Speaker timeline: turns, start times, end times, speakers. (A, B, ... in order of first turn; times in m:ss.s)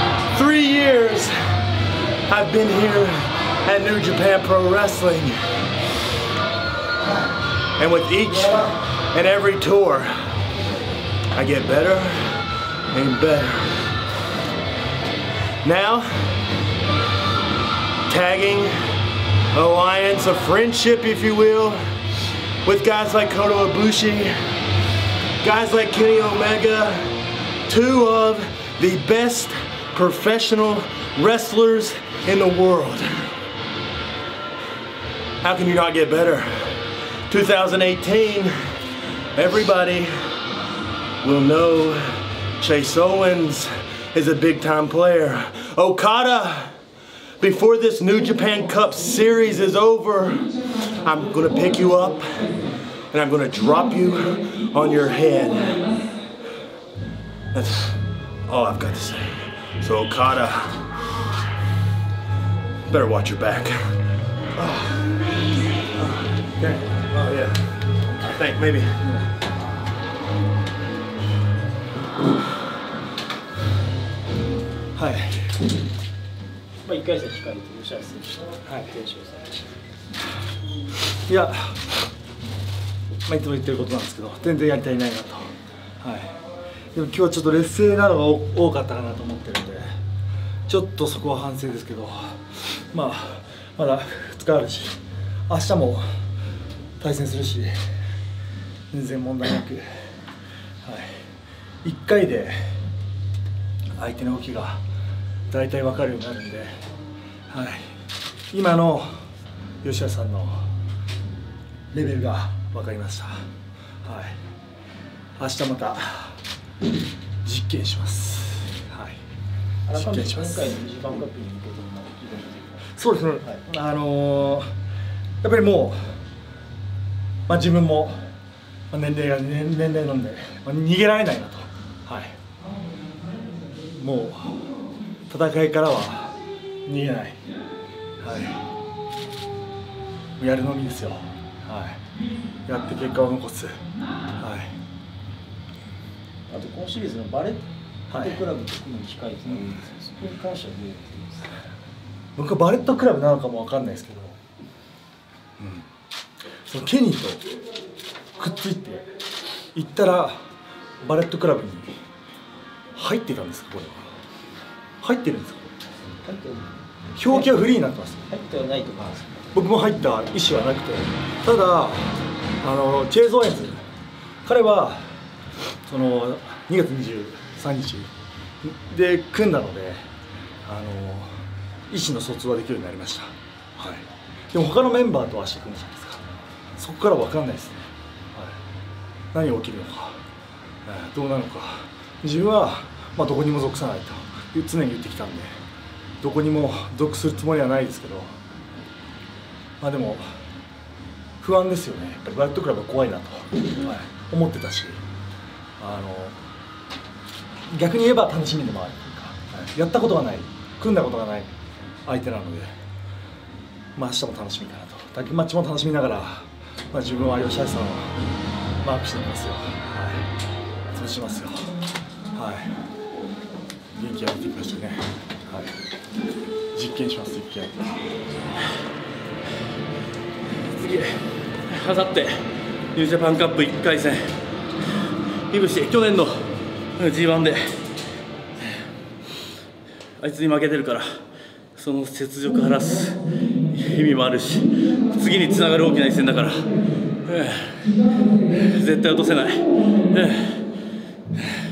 0:00.3-0:01.4 A
0:02.3-0:05.4 A
0:07.8-0:10.1 A
0:11.3-0:13.9 A
0:15.6-0:16.4 A
0:18.1-0:18.8 A
0:19.5-0:21.8 A
0:22.6-0:24.3 A
0:25.4-0:27.2 A
0:27.7-0:33.4 A
0:35.4-0:38.5 A
0:39.4-0:40.1 A
0:41.2-0:46.8 A
0:47.4-0:52.6 A
0:53.1-0:55.9 A
0:57.5-1:00.8 A
1:02.9-1:03.9 A
1:04.6-1:04.8 A
1:06.0-1:06.3 A
1:06.6-1:07.0 B
1:07.1-1:09.0 A
1:15.0-1:15.6 B
1:16.8-1:19.6 C
1:18.7-1:18.9 B
1:21.3-1:21.9 B
1:23.3-1:26.4 B
1:26.9-1:30.0 B
1:30.7-1:36.0 B
1:37.0-1:37.7 B
1:38.9-1:40.1 B
1:40.8-1:41.2 B
1:41.8-1:42.8 B
1:43.9-1:44.8 B
1:45.5-1:46.7 B
1:47.5-1:48.0 B
1:48.5-1:49.2 B
1:49.8-1:50.7 B
1:51.9-1:53.5 B
1:54.0-1:54.4 B
1:55.4-1:56.4 B
1:57.4-1:59.2 B
1:59.9-2:03.6 C
1:59.9-2:00.8 B
2:02.9-2:04.7 B
2:05.4-2:06.2 B
2:07.5-2:08.2 B
2:08.9-2:12.4 B
2:13.9-2:14.7 B
2:15.3-2:17.4 B
2:18.2-2:18.6 B
2:20.4-2:22.0 B
2:22.7-2:23.8 B
2:24.4-2:24.8 B
2:26.5-2:31.5 C
2:28.1-2:28.4 B
2:32.4-2:34.4 B
2:35.6-2:35.9 B
2:36.6-2:37.5 B
2:38.4-2:39.1 B
2:39.7-2:40.4 B
2:41.0-2:42.0 B
2:43.0-2:44.1 B
2:45.0-2:45.7 B
2:46.2-2:47.5 C
2:47.2-2:48.3 B
2:48.3-2:49.5 C
2:49.5-2:53.8 B
2:54.4-2:55.1 B
2:55.9-2:58.1 B
2:58.6-3:00.1 B
3:00.6-3:06.2 B
3:06.8-3:08.6 B
3:09.3-3:10.2 B
3:10.8-3:15.6 B
3:16.2-3:18.4 B
3:19.8-3:20.3 B
3:21.4-3:25.0 B
3:25.8-3:26.4 B
3:27.7-3:31.5 B
3:32.1-3:32.7 B
3:34.0-3:38.2 B
3:38.8-3:40.3 B
3:40.9-3:41.7 B
3:42.3-3:42.8 B
3:43.9-3:45.7 B
3:46.7-3:47.9 B
3:50.8-3:54.4 A
3:55.5-3:57.9 A
4:00.2-4:01.2 A
4:01.8-4:06.7 A
4:07.3-4:10.6 A